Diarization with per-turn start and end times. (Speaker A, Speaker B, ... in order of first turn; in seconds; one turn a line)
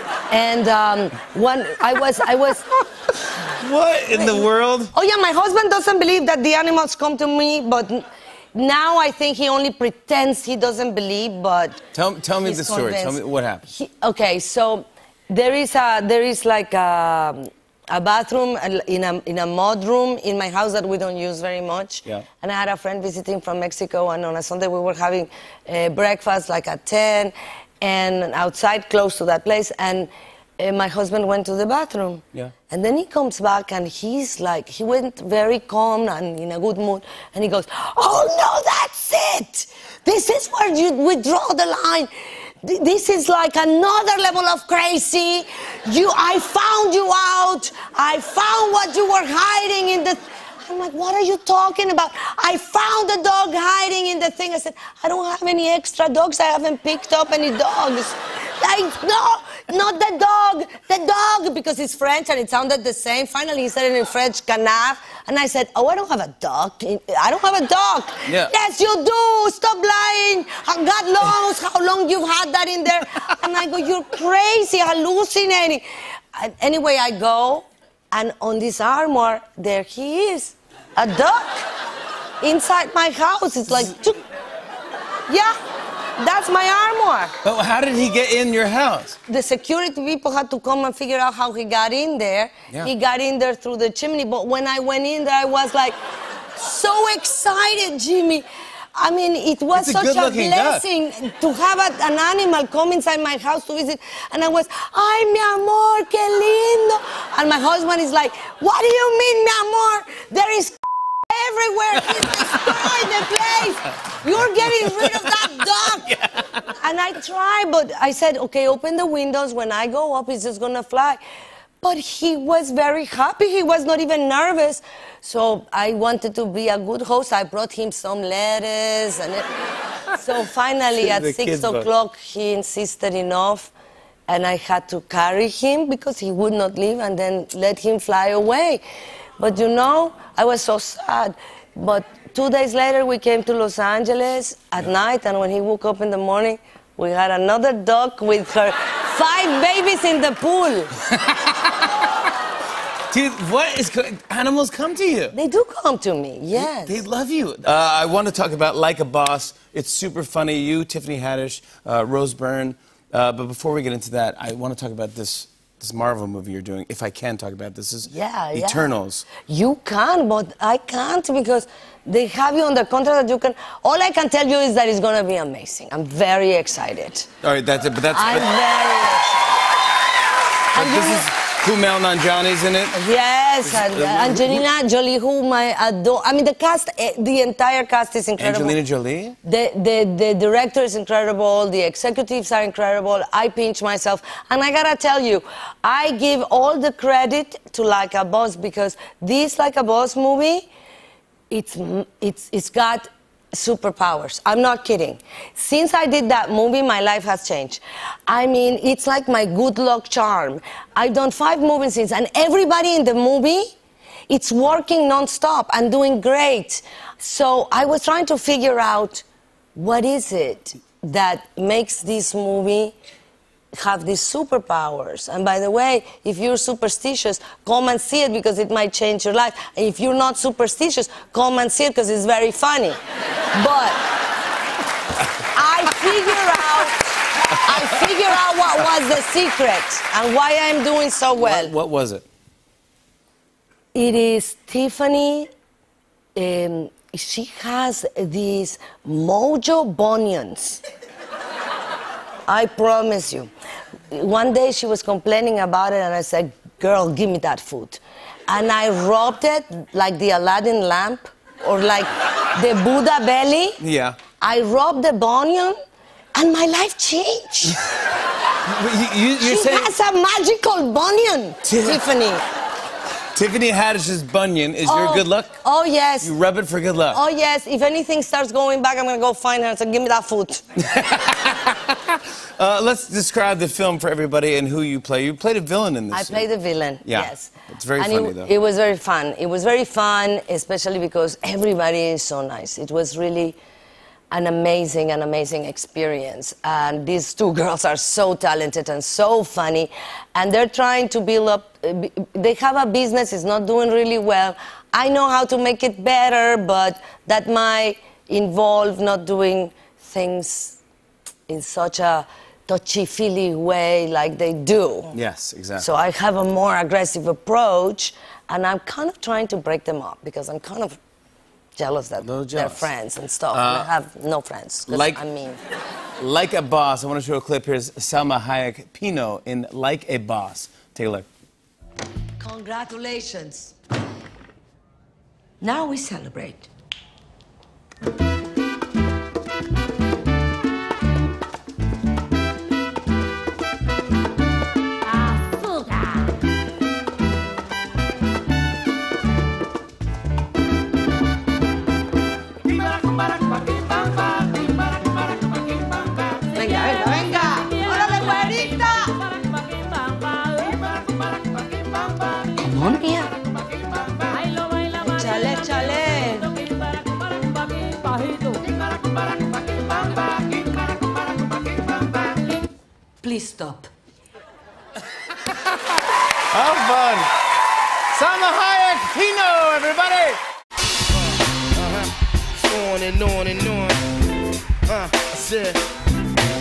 Speaker A: 0.3-2.8
Speaker B: 3.5-4.9
Speaker A: 4.1-11.8
Speaker B: 11.9-13.7
Speaker A: 12.4-13.2
Speaker A: 13.7-81.6
Speaker B: 68.3-68.5
Speaker A: 82.4-84.2
Speaker A: 85.3-85.5
Speaker A: 86.2-87.3
Speaker B: 87.4-89.2
Speaker A: 89.3-96.0
Speaker A: 96.6-121.2
Speaker B: 99.7-100.8
Speaker B: 112.2-113.1
Speaker B: 114.9-116.7
Speaker A: 121.8-129.5
Speaker A: 130.2-133.7
Speaker B: 131.0-131.9
Speaker A: 134.3-138.8
Speaker A: 139.4-150.9
Speaker B: 151.1-151.9
Speaker B: 153.1-155.3
Speaker A: 155.3-157.0
Speaker B: 156.5-169.3
Speaker A: 168.1-168.9
Speaker A: 169.5-177.3
Speaker B: 177.4-178.5
Speaker A: 178.1-179.6
Speaker A: 180.7-181.3
Speaker B: 180.8-183.0
Speaker A: 182.9-188.8
Speaker B: 183.6-184.7
Speaker B: 188.4-189.4
Speaker A: 189.4-200.7
Speaker A: 201.5-213.8
Speaker A: 214.3-219.2
Speaker A: 219.8-223.0
Speaker A: 223.7-233.0
Speaker A: 233.5-234.0
Speaker A: 235.5-241.7
Speaker B: 241.4-242.3
Speaker A: 243.9-245.5
Speaker A: 246.4-250.8
Speaker A: 252.5-253.5
Speaker A: 254.1-263.8
Speaker B: 263.8-264.2
Speaker A: 264.4-265.8
Speaker A: 266.4-267.8
Speaker B: 268.6-269.9
Speaker A: 269.4-272.4
Speaker B: 271.6-272.0
Speaker B: 273.4-275.6
Speaker A: 274.9-276.3
Speaker B: 276.2-277.2
Speaker A: 277.1-280.6
Speaker B: 280.8-286.5
Speaker A: 286.1-293.6
Speaker B: 287.0-288.5
Speaker A: 294.3-310.8
Speaker A: 311.5-315.2
Speaker B: 315.1-315.9
Speaker A: 315.8-321.0
Speaker A: 321.8-325.6
Speaker B: 322.2-322.9
Speaker B: 323.5-323.9
Speaker B: 324.9-325.2
Speaker B: 326.2-331.3
Speaker A: 332.4-333.7
Speaker A: 335.6-336.7
Speaker C: 353.4-354.6
Speaker A: 356.5-359.3
Speaker A: 362.6-363.3
Speaker A: 364.9-366.7
Speaker A: 373.2-373.9
Speaker B: 376.5-377.3
Speaker B: 378.1-380.4
Speaker C: 381.6-384.1
Speaker C: 384.9-385.8